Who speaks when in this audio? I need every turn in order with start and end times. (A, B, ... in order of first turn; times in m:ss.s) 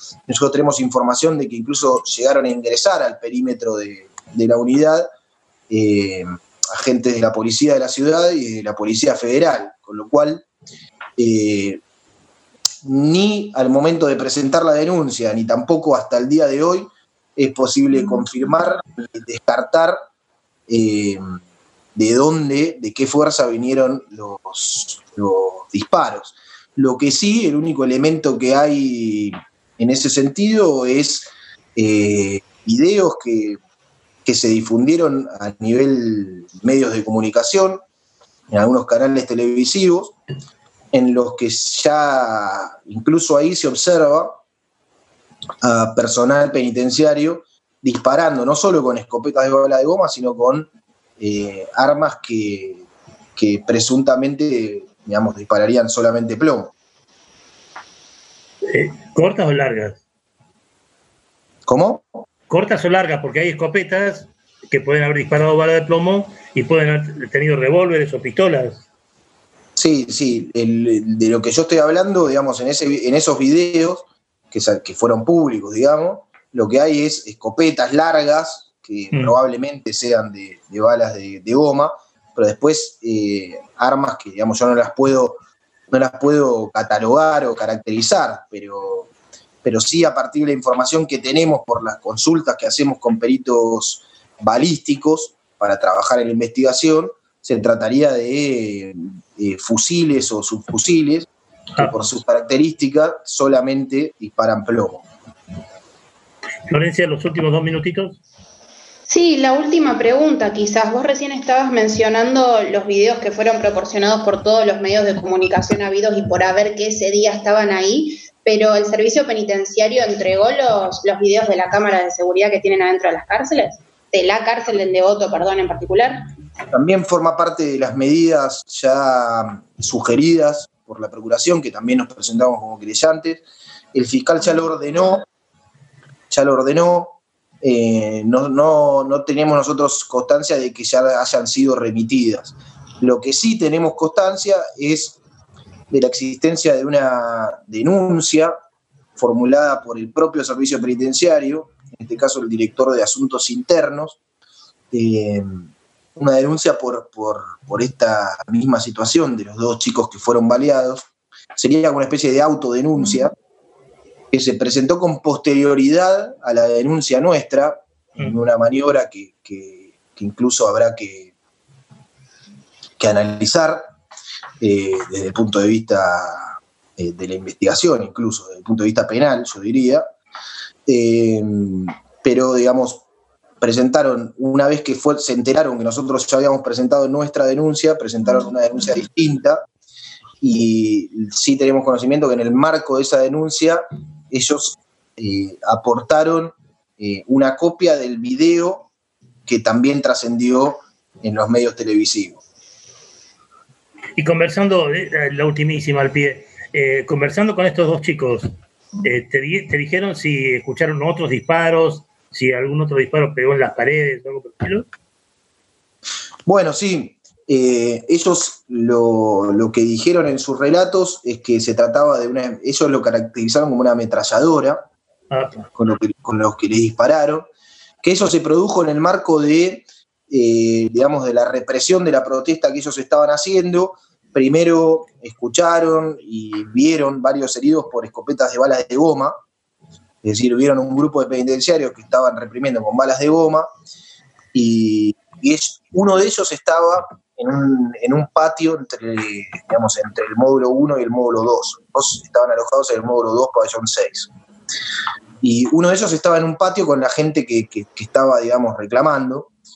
0:00.3-0:05.1 A
0:05.7-0:10.4 A
0:11.2-0:11.8 A
0:12.8-0:20.0 A
0:20.7-0:21.4 A
0:22.0-0:33.6 A
0:34.2-0:37.8 A
0:38.5-0:40.2 A
0:40.9-0:44.4 A
0:45.6-0:52.8 A
0:53.4-0:56.7 A
0:58.7-1:00.0 B
1:01.7-1:02.0 A
1:02.5-1:08.8 B
1:09.8-1:25.4 A
1:25.9-1:29.1 A
1:29.6-1:45.0 A
1:46.7-1:48.2 B
1:49.1-2:06.3 C
2:06.7-2:13.4 A
2:13.9-2:15.2 A
2:16.3-2:25.2 A
2:25.9-2:28.5 A
2:29.2-2:34.2 A
2:34.9-2:35.6 A
2:36.2-2:43.3 A
2:44.3-2:51.3 A
2:53.0-2:53.9 A
2:54.6-3:00.0 A
3:00.9-3:03.0 A
3:03.6-3:09.6 A
3:10.4-3:18.9 A
3:19.5-3:22.4 A
3:24.2-3:28.5 B
3:29.0-3:34.9 B
3:36.5-3:44.9 A
3:45.3-3:45.7 B
3:45.8-3:47.5 A
3:48.0-3:59.4 A
4:00.2-4:03.7 A
4:04.5-4:14.3 A
4:15.4-4:19.5 A